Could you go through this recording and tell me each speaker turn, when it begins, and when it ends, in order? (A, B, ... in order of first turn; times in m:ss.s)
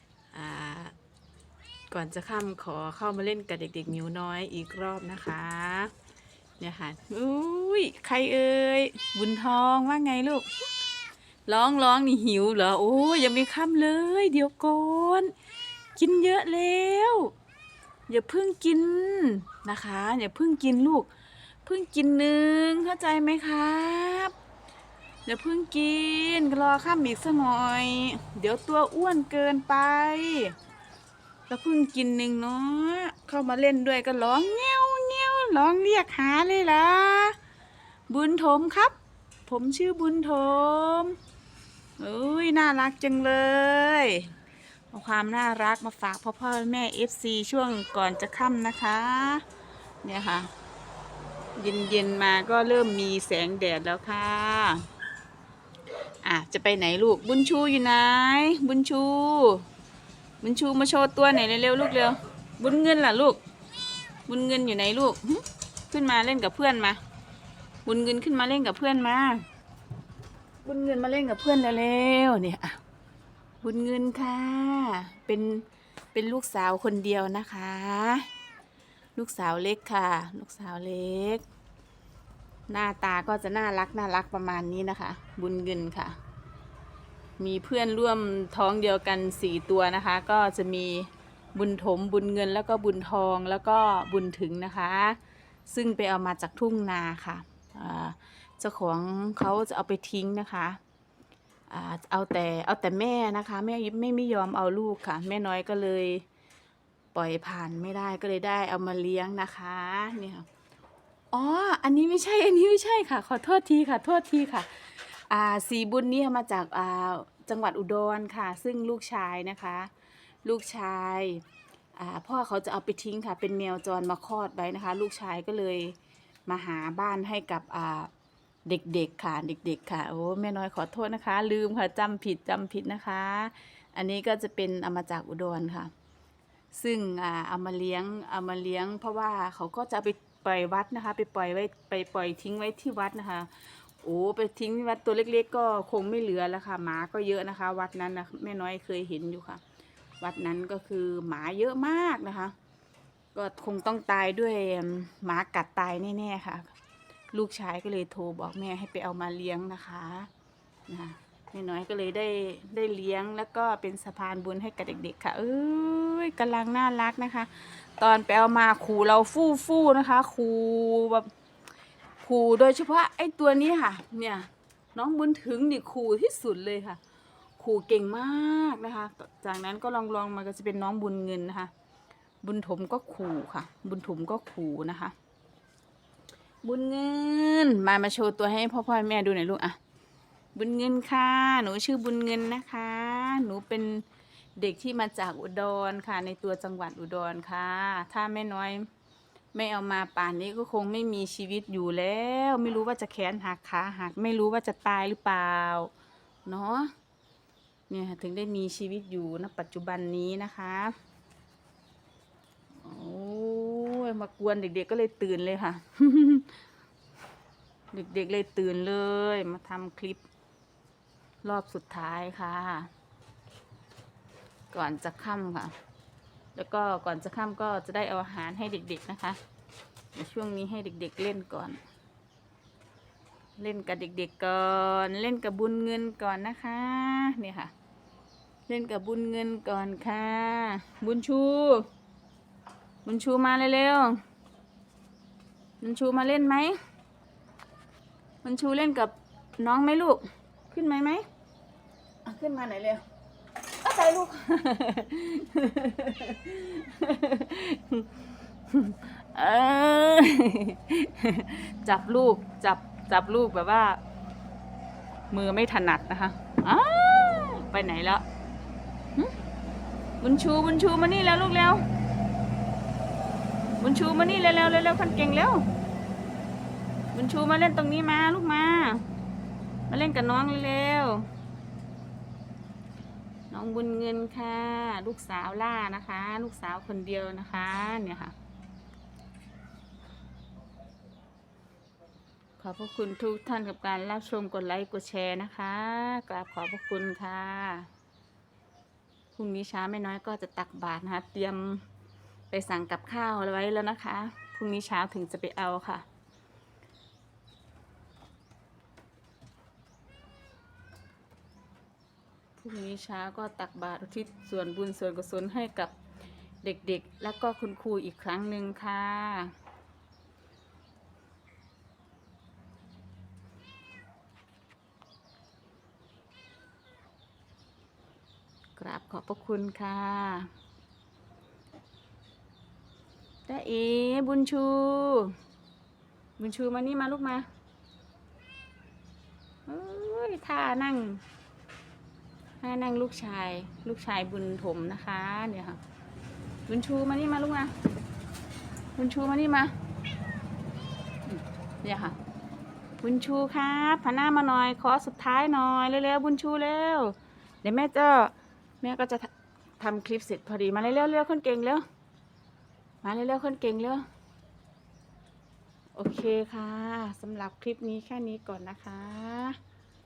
0:00.3-0:00.9 A
0:01.9-0:05.9 A
0:06.6-0:10.5 A
0:11.4-0:15.3 A
0:16.0-0:17.3 A
0:18.1-0:21.1 A
0:21.6-0:24.3 A
0:25.2-0:30.5 A
0:31.5-0:37.4 A
0:38.1-0:38.9 A
0:39.4-0:41.2 A
0:42.0-0:44.3 A
0:44.9-0:49.4 A
0:50.0-0:50.5 A
0:51.6-0:54.8 A
0:56.2-0:59.6 A
1:00.4-1:03.4 A
1:04.2-1:07.0 A
1:07.8-1:09.4 A
1:10.6-1:12.8 A
1:13.6-1:18.3 A
1:19.2-1:21.4 A
1:22.7-1:26.2 A
1:27.4-1:40.8 A
1:41.7-1:46.2 A
1:47.1-1:50.5 A
1:51.3-1:59.9 A
2:00.4-2:01.4 A
2:02.0-2:05.9 A
2:06.5-2:08.1 A
2:08.6-2:15.9 A
2:16.7-2:29.6 A
2:30.2-2:32.5 A
2:33.3-2:36.7 A
2:37.3-2:40.3 A
2:40.9-2:51.3 A
2:52.2-2:57.0 A
2:57.6-3:01.7 A
3:02.4-3:05.1 A
3:06.6-3:09.8 A
3:10.5-3:14.0 A
3:14.6-3:18.9 A
3:19.5-3:25.9 A
3:26.4-3:26.9 A
3:27.9-3:30.9 A
3:32.8-3:36.5 A
3:37.9-3:40.2 A
3:41.4-3:42.9 A
3:44.7-3:45.7 A
3:46.5-3:49.4 A
3:50.1-3:51.8 A
3:53.6-3:57.7 A
3:58.7-4:01.8 A
4:03.0-4:04.2 A
4:05.8-4:06.7 A
4:08.4-4:11.2 A
4:12.2-4:13.0 A
4:13.8-4:24.0 A
4:25.3-4:28.2 A
4:30.2-4:31.8 A
4:33.8-4:35.6 A
4:37.1-4:39.0 A
4:39.9-4:41.3 A
4:43.5-4:48.3 A
4:52.6-4:57.9 A
4:59.3-5:01.8 A
5:02.5-5:06.0 A
5:12.6-5:15.9 A
5:16.6-5:19.5 A
5:28.8-5:30.5 A
5:33.5-5:35.3 A
5:36.4-5:37.4 A
5:39.7-5:41.2 A
5:42.6-5:45.8 A
5:46.7-5:47.7 A
5:49.0-5:49.7 A
5:51.2-5:52.2 A
5:53.0-6:01.8 A
6:03.0-6:04.0 A
6:05.9-6:09.6 A